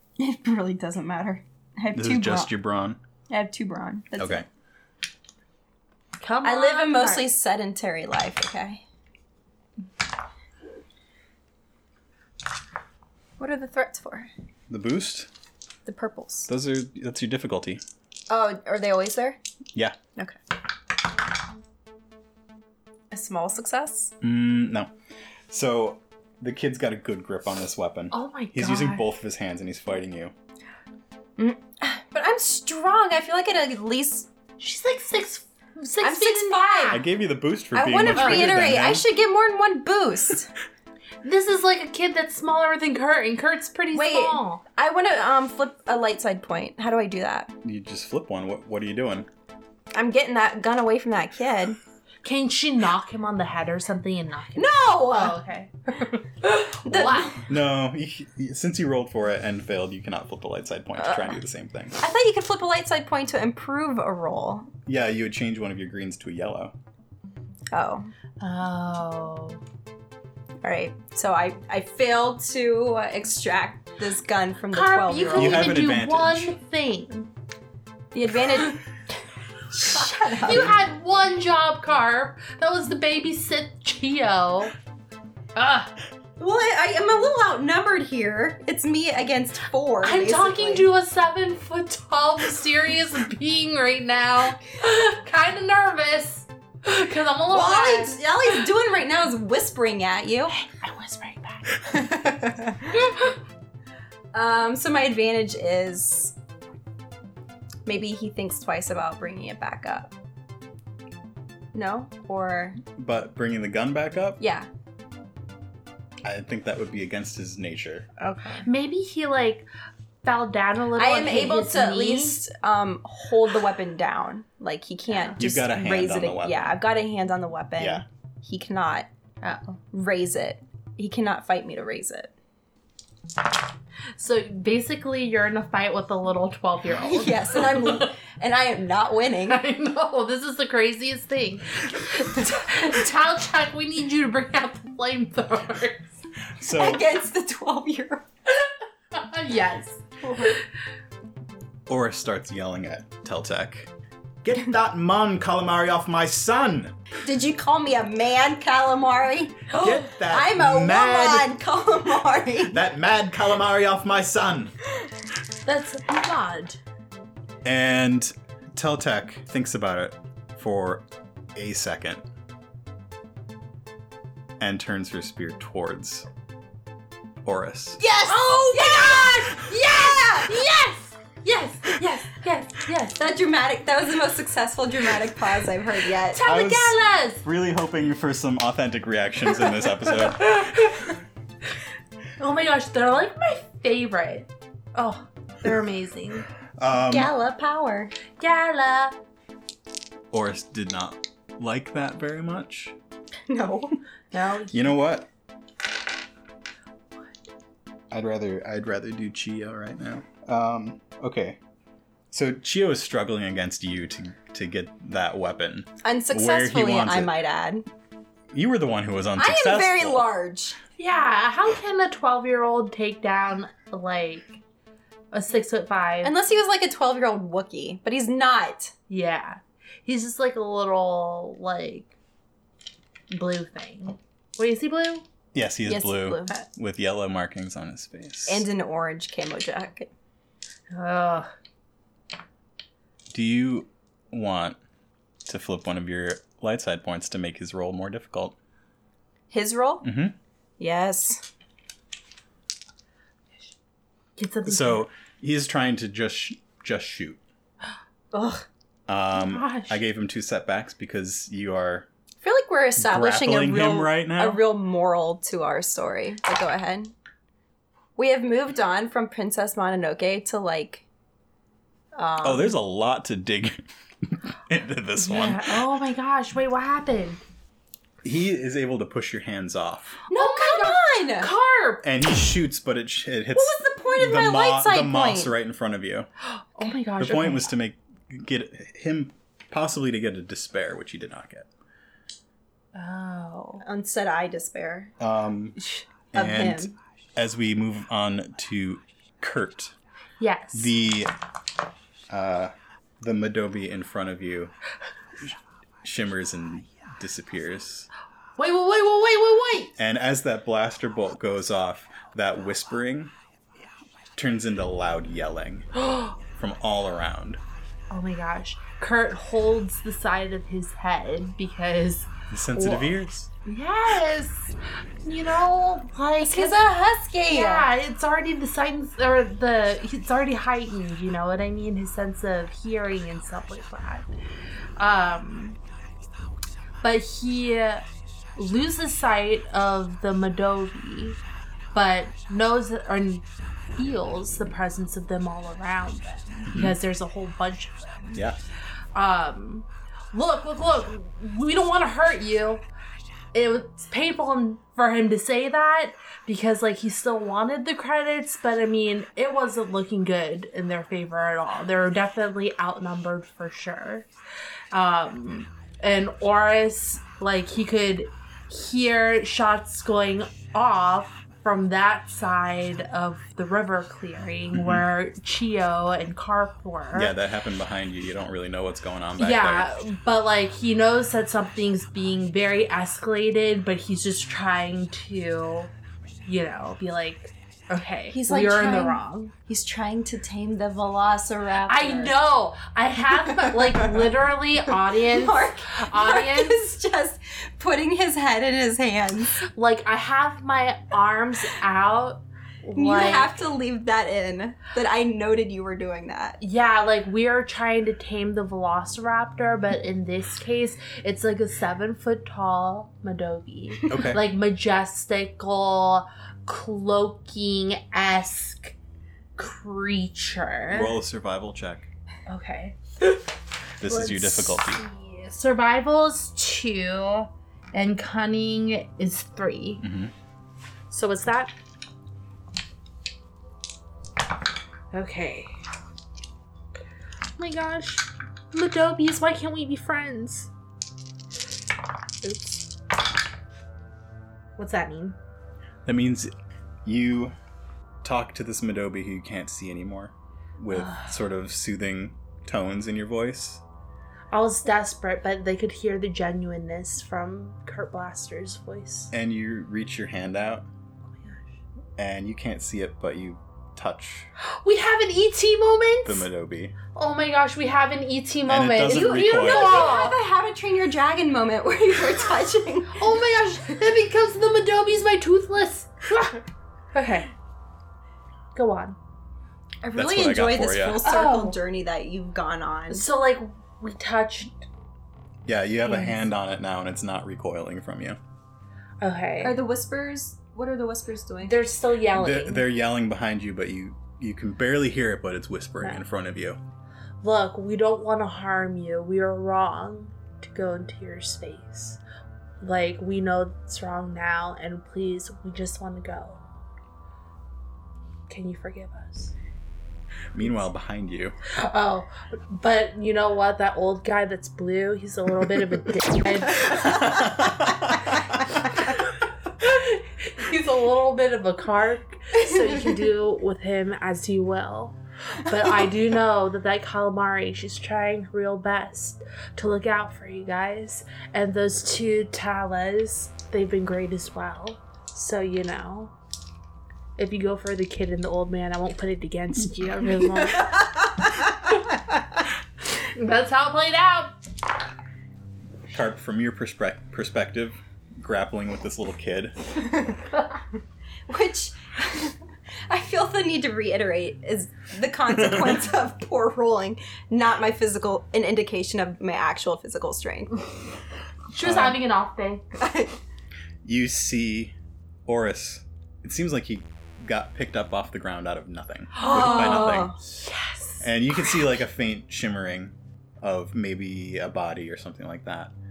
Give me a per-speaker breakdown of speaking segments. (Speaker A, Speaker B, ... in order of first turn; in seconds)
Speaker A: 0.2-2.5, 3.3-4.4, 6.4-8.8, 13.4-14.3, 15.8-16.5, 18.3-19.4, 23.1-24.1, 31.4-34.3, 36.0-37.0, 37.7-40.5, 43.9-47.5, 49.9-51.8, 54.5-55.4, 56.8-57.4, 61.0-61.4, 62.0-64.7, 67.7-68.1, 70.6-75.8, 78.1-78.8, 79.7-80.8, 86.4-90.9, 97.5-100.5, 104.3-106.3, 107.8-110.1, 111.7-112.8, 114.4-114.7, 118.2-118.6, 121.0-129.1, 129.9-132.3, 137.0-139.6, 146.7-148.2, 150.2-150.6, 157.2-162.8, 178.3-180.5, 183.2-186.4, 197.1-198.1, 203.5-204.0, 216.0-217.8, 219.4-220.8, 226.2-228.9, 235.8-236.7, 238.4-240.1, 249.5-250.1, 250.8-251.4, 258.3-258.6, 262.4-267.1, 268.2-271.0, 272.1-272.8, 280.3-281.5, 283.5-285.5, 293.8-295.1, 296.3-296.9, 326.4-327.9, 388.3-392.3, 393.5-394.2, 394.9-399.6, 402.9-406.6, 469.1-473.2, 480.0-483.2, 489.6-491.8, 551.5-552.6, 553.1-560.8, 563.0-563.4, 569.4-570.4
Speaker B: 1.9-3.0, 4.2-4.5, 14.7-15.3, 16.5-17.8, 24.2-24.9, 25.5-30.3, 36.9-39.0, 47.6-49.3, 57.5-62.0, 64.8-66.7, 75.3-76.5, 112.9-114.4, 116.2-118.1, 125.4-126.8, 127.8-128.0, 146.6-147.0, 151.9-153.9, 154.4-156.9, 159.7-161.5, 162.7-164.7, 167.6-172.2, 174.6-176.3, 177.4-178.0, 186.4-190.5, 196.8-197.3, 200.3-202.9, 204.7-205.3, 208.1-211.6, 212.3-217.3, 218.5-220.2, 235.5-238.6, 243.3-244.8, 245.4-248.6, 250.0-250.3, 254.7-257.4, 259.1-262.1, 263.0-264.6, 272.4-275.8, 278.2-280.2, 282.0-286.3, 287.2-291.7, 295.2-295.8, 296.3-299.9, 300.7-301.3, 302.3-304.7, 305.4-308.1, 310.0-313.3, 314.4-315.9, 316.5-317.6, 322.5-323.5, 346.7-346.9, 374.7-375.0, 377.1-379.9, 414.1-414.4, 420.9-422.1, 424.0-425.0, 430.0-430.3, 446.0-446.5, 447.0-447.5, 448.2-453.8, 459.3-460.9, 462.2-464.5, 466.2-466.9, 468.7-470.1, 480.1-481.2, 485.6-488.4, 492.3-496.8, 510.5-511.5, 517.2-518.3, 546.1-549.8, 555.6-555.9, 561.8-562.2, 564.0-564.9, 565.5-570.3, 571.2-575.9
Speaker C: 6.2-7.3, 28.1-29.1, 34.6-37.0, 38.1-38.6, 41.2-44.6, 52.2-57.4, 68.4-69.6, 74.7-77.3, 80.3-84.7, 85.5-85.9, 90.0-98.2, 100.5-102.0, 102.9-103.3, 118.6-119.7, 120.2-122.4, 125.1-125.4, 129.4-129.8, 134.2-138.1, 139.5-146.1, 148.6-150.0, 159.7-160.1, 165.6-166.8, 178.0-183.2, 186.3-187.4, 190.4-191.1, 192.4-196.5, 198.4-199.2, 204.3-204.9, 221.0-224.6, 225.3-226.3, 229.1-232.1, 233.3-235.2, 240.9-241.5, 254.4-255.0, 259.3-260.0, 275.2-277.4, 280.3-282.0, 286.5-287.7, 292.9-293.8, 300.4-300.9, 308.6-309.9, 315.9-316.4, 318.1-326.8, 327.5-334.3, 335.0-335.8, 337.0-341.4, 341.9-343.4, 344.0-348.4, 349.1-352.8, 353.5-364.3, 364.9-377.3, 379.4-385.9, 386.4-389.5, 391.9-396.8, 399.6-403.6, 406.6-418.9, 419.6-421.1, 422.5-423.4, 424.0-430.0, 431.1-431.7, 435.1-435.7, 437.6-440.7, 442.4-442.9, 444.8-445.4, 450.9-451.3, 454.5-459.3, 464.6-466.5, 467.1-470.4, 473.1-476.6, 477.1-477.5, 478.7-479.2, 481.2-481.8, 483.1-484.8, 486.0-486.4, 489.2-489.8, 491.6-492.8, 497.4-502.2, 502.8-506.6, 508.5-509.5, 511.7-517.6, 519.8-536.3, 537.4-541.1, 543.2-544.5, 561.7-562.8, 569.3-571.7